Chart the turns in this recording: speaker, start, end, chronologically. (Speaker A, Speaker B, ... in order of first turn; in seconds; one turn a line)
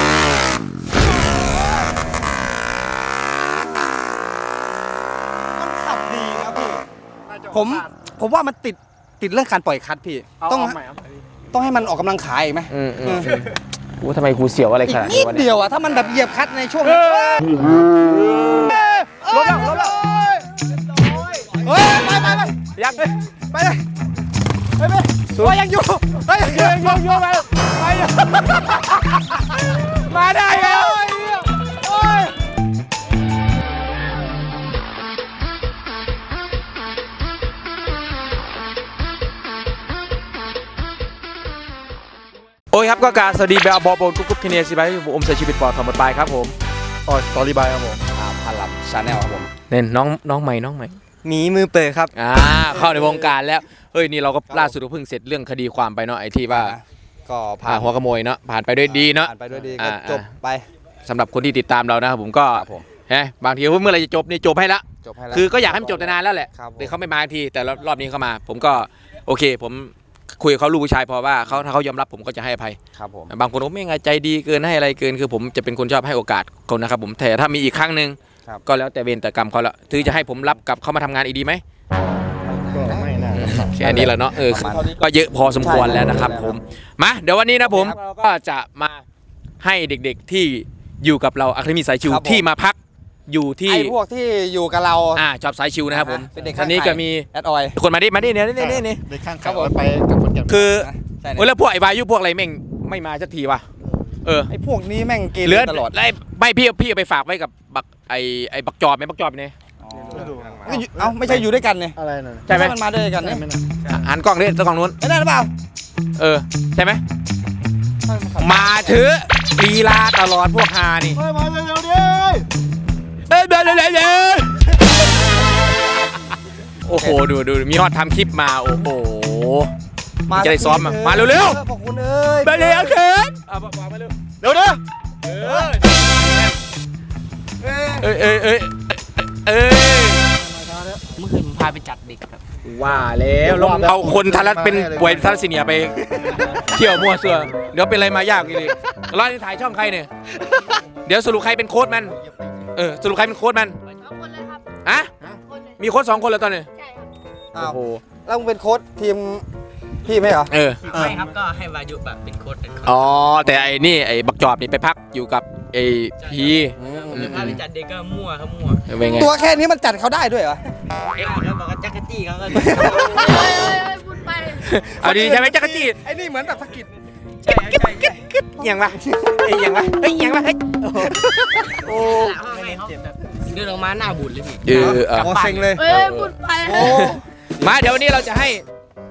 Speaker A: 5.6-6.8
Speaker B: 7.3-7.9
Speaker A: 7.5-10.8
Speaker B: 10.4-11.1
Speaker A: 11.5-13.3
Speaker C: 12.7-15.5
Speaker A: 14.8-17.4
Speaker C: 16.8-19.9
Speaker A: 18.6-20.4
Speaker A: 21.5-22.5
Speaker C: 22.7-23.1
Speaker A: 23.5-23.8
Speaker A: 24.8-27.4
Speaker C: 25.3-25.6
Speaker C: 26.2-31.4
Speaker A: 30.4-32.3
Speaker C: 42.7-46.5
Speaker B: 47.1-48.0
Speaker A: 48.1-49.5
Speaker C: 49.7-51.0
Speaker D: 51.2-52.1
Speaker C: 52.1-56.8
Speaker A: 54.5-54.7
Speaker A: 56.5-57.9
Speaker C: 57.6-60.3
Speaker A: 58.8-60.6
Speaker C: 61.0-72.8
Speaker A: 62.5-62.8
Speaker A: 65.0-66.9
Speaker A: 73.0-73.3
Speaker C: 73.3-81.6
Speaker A: 82.2-84.9
Speaker B: 82.7-83.5
Speaker C: 83.3-89.0
Speaker A: 85.6-86.6
Speaker A: 87.6-88.0
Speaker C: 89.6-92.8
Speaker A: 92.0-92.4
Speaker C: 93.3-94.0
Speaker A: 93.7-95.2
Speaker C: 95.1-99.0
Speaker A: 95.9-97.8
Speaker B: 98.5-100.8
Speaker A: 99.4-99.8
Speaker C: 100.5-103.6
Speaker A: 100.8-101.5
Speaker C: 104.2-104.5
Speaker A: 104.5-105.9
Speaker C: 105.4-109.5
Speaker A: 109.8-112.0
Speaker B: 110.0-112.5
Speaker C: 112.5-112.8
Speaker A: 112.5-113.4
Speaker B: 113.2-113.8
Speaker C: 113.8-115.0
Speaker A: 115.0-115.5
Speaker C: 116.2-117.0
Speaker B: 118.0-119.0
Speaker C: 118.4-121.2
Speaker B: 121.1-122.5
Speaker C: 123.3-124.8
Speaker C: 126.8-129.7
Speaker A: 126.9-127.2
Speaker A: 130.3-132.9
Speaker C: 130.3-131.6
Speaker C: 132.4-134.1
Speaker B: 134.4-134.8
Speaker C: 135.2-136.6
Speaker A: 137.6-138.1
Speaker C: 138.0-140.2
Speaker B: 140.3-141.1
Speaker D: 141.2-142.4
Speaker C: 142.6-150.1
Speaker B: 143.4-145.4
Speaker C: 151.0-152.2
Speaker C: 152.7-153.8
Speaker E: 154.0-154.6
Speaker C: 154.8-155.1
Speaker C: 155.8-156.7
Speaker A: 157.5-159.4
Speaker C: 157.6-158.0
Speaker A: 160.0-160.5
Speaker C: 160.5-160.9
Speaker D: 160.8-162.9
Speaker B: 160.9-161.3
Speaker C: 162.8-167.6
Speaker A: 166.8-167.5
Speaker D: 167.1-168.8
Speaker C: 168.8-169.3
Speaker A: 169.1-170.6
Speaker D: 171.2-172.8
Speaker A: 172.5-173.5
Speaker E: 173.3-174.4
Speaker C: 174.4-176.0
Speaker A: 175.0-176.9
Speaker D: 177.4-178.1
Speaker C: 177.5-182.4
Speaker D: 182.2-184.6
Speaker C: 184.6-188.6
Speaker A: 184.7-185.8
Speaker D: 185.2-185.7
Speaker E: 185.8-187.1
Speaker A: 186.6-187.8